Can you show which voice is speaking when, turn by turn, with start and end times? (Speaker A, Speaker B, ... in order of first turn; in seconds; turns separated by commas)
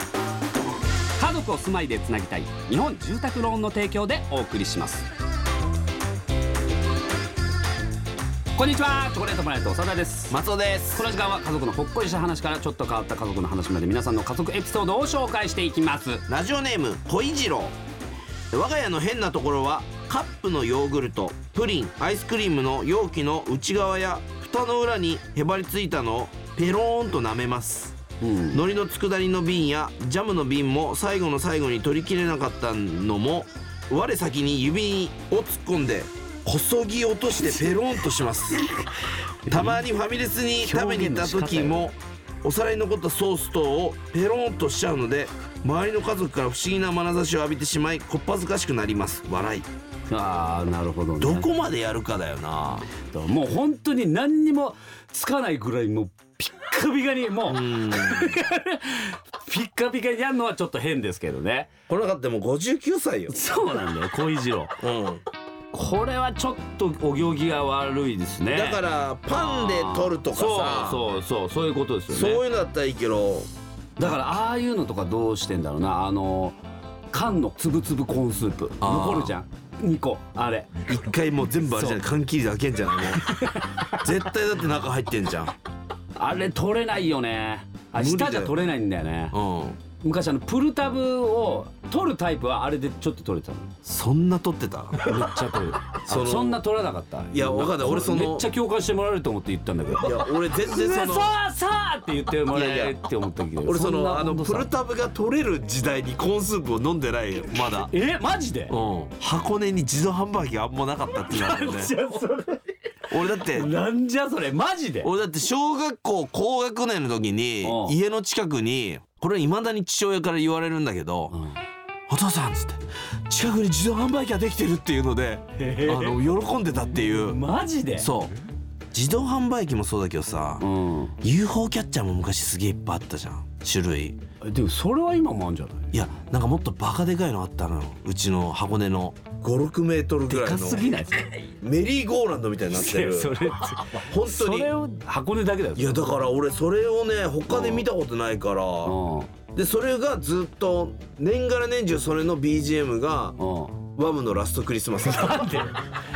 Speaker A: 1.2-5.1, Speaker A: 8.6-10.4, Speaker B: 10.3-11.1, Speaker A: 10.9-16.2, Speaker B: 16.3-17.7, Speaker B: 18.5-28.0, Speaker A: 28.2-28.6, Speaker B: 28.5-38.7, Speaker A: 39.5-39.8, Speaker B: 39.5-49.7, Speaker A: 40.6-41.9, Speaker A: 50.1-51.5, Speaker B: 51.2-52.9, Speaker A: 53.0-61.7, Speaker B: 57.5-58.4, Speaker B: 61.9-63.4, Speaker A: 63.3-64.8, Speaker B: 64.8-65.2, Speaker A: 65.7-72.4, Speaker B: 68.5-71.0, Speaker B: 72.1-73.5, Speaker A: 74.0-76.6, Speaker A: 77.1-80.8, Speaker B: 78.8-79.3, Speaker B: 80.9-85.5, Speaker A: 81.6-82.0, Speaker A: 83.1-84.0, Speaker A: 86.2-89.3, Speaker B: 88.0-88.6, Speaker B: 89.3-89.8, Speaker A: 90.0-93.7, Speaker B: 93.8-95.2, Speaker A: 95.0-104.7, Speaker B: 96.0-96.6, Speaker B: 97.3-98.5, Speaker B: 100.0-101.4, Speaker B: 102.5-103.0, Speaker B: 103.7-107.9, Speaker A: 107.6-108.8, Speaker B: 108.7-112.0, Speaker A: 111.1-112.6, Speaker B: 113.1-113.7, Speaker A: 113.2-115.1, Speaker B: 115.0-121.4, Speaker A: 117.6-118.0, Speaker B: 122.1-127.4, Speaker A: 125.6-126.3, Speaker A: 126.9-128.1, Speaker B: 128.0-128.3, Speaker B: 128.9-130.7, Speaker A: 130.6-131.2, Speaker B: 131.2-134.2, Speaker A: 134.4-136.0, Speaker B: 135.9-141.0, Speaker A: 140.3-141.5, Speaker B: 141.6-144.7, Speaker A: 142.7-146.0, Speaker B: 145.8-149.0, Speaker A: 147.5-147.8, Speaker A: 148.8-149.3, Speaker B: 149.5-153.4, Speaker A: 153.4-153.8, Speaker B: 153.9-155.7, Speaker A: 155.0-155.8